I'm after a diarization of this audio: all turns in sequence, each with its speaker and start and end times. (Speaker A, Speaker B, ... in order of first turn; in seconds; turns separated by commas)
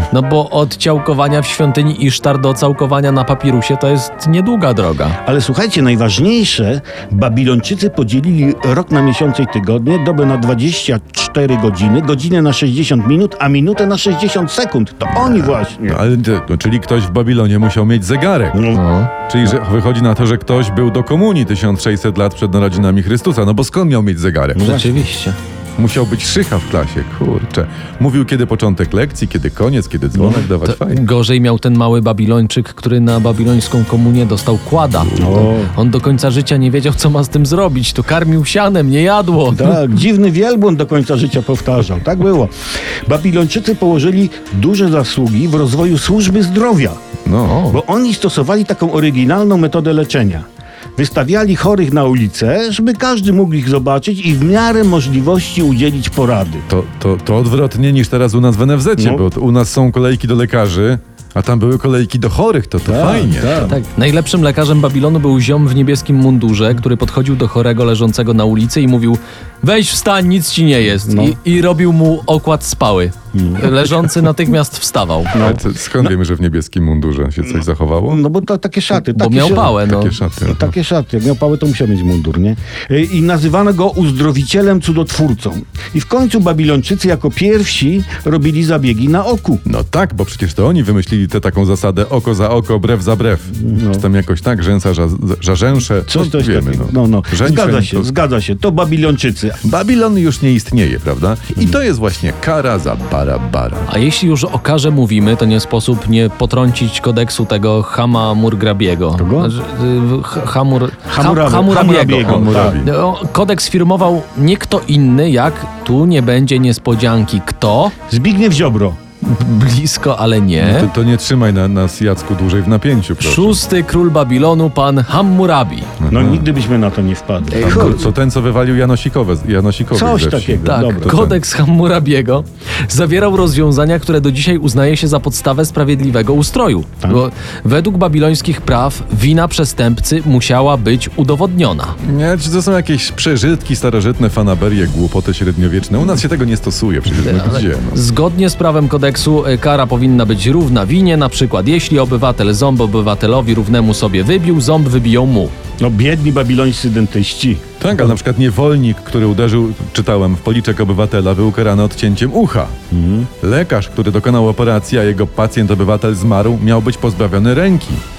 Speaker A: 0.1-5.2, Speaker B: 5.2-16.0, Speaker C: 15.1-18.6, Speaker B: 18.5-18.8, Speaker A: 18.7-19.1, Speaker C: 19.3-24.7, Speaker B: 24.6-25.1, Speaker A: 24.6-25.4, Speaker C: 25.8-31.0, Speaker B: 30.1-30.5, Speaker A: 30.6-39.8, Speaker B: 35.1-35.7, Speaker B: 39.5-42.5, Speaker B: 43.0-47.0, Speaker C: 47.2-47.6, Speaker A: 47.5-47.8, Speaker B: 47.7-50.5, Speaker B: 51.0-56.6, Speaker C: 56.7-63.7, Speaker B: 59.0-59.2, Speaker B: 62.9-63.8, Speaker A: 63.6-75.3, Speaker B: 71.1-71.3, Speaker B: 73.3-73.8, Speaker B: 75.3-76.1, Speaker C: 75.4-78.2, Speaker B: 77.5-79.8, Speaker A: 79.0-80.1, Speaker C: 79.8-80.7, Speaker B: 80.5-89.6, Speaker C: 89.6-98.1, Speaker B: 93.6-94.0, Speaker B: 96.1-99.6, Speaker C: 99.6-103.9, Speaker A: 103.9-117.9, Speaker B: 109.2-109.5, Speaker B: 111.1-112.8, Speaker C: 112.2-112.9, Speaker B: 118.1-119.0, Speaker A: 119.2-120.9, Speaker C: 120.6-123.6, Speaker A: 123.2-125.9, Speaker C: 126.0-126.4, Speaker B: 126.1-128.1, Speaker A: 127.5-128.1, Speaker C: 127.6-131.4, Speaker B: 129.9-131.1, Speaker A: 130.6-142.0, Speaker C: 142.0-148.0, Speaker A: 147.2-155.5, Speaker B: 155.8-157.6, Speaker C: 157.8-162.7, Speaker B: 162.9-163.3, Speaker C: 163.4-168.0